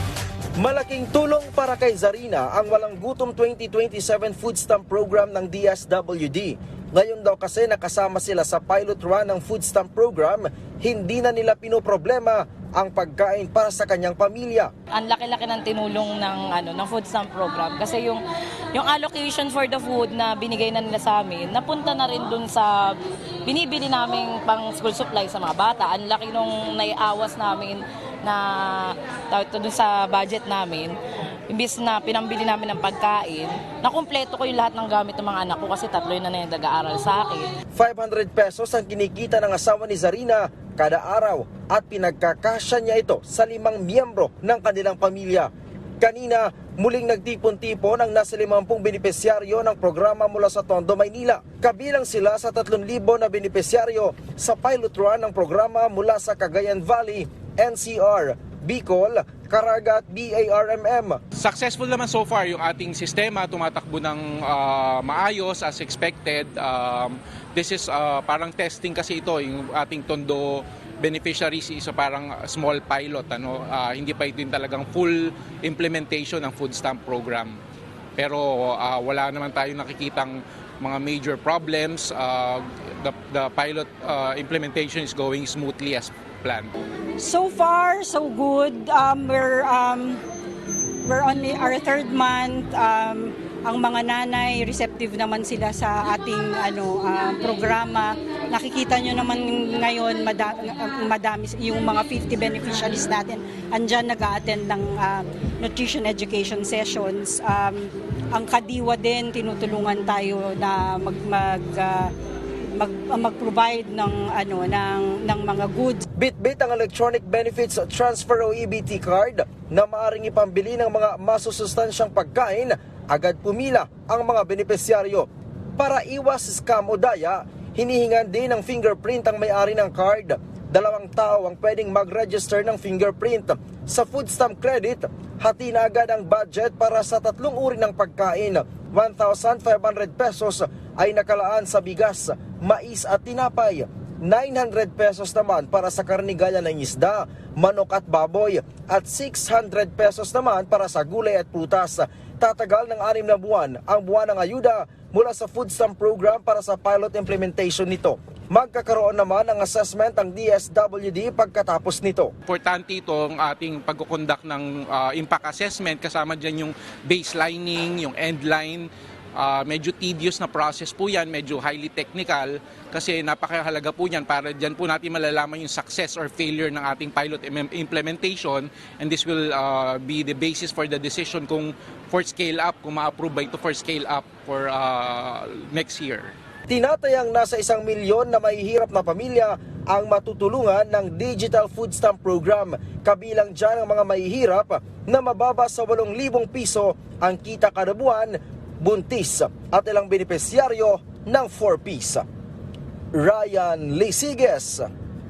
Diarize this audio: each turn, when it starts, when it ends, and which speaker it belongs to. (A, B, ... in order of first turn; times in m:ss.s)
0:00.6-0:14.7 A
0:14.9-0:31.0 B
0:31.5-0:37.5 B
0:37.7-1:01.2 A
1:01.3-1:17.6 C
1:18.2-1:26.7 C
1:27.2-1:30.2 D
1:31.0-1:52.1 D
1:52.7-1:56.0 D
1:56.1-2:42.3 A
2:42.5-3:06.3 C
3:06.7-3:22.2 A
3:23.1-3:24.9 A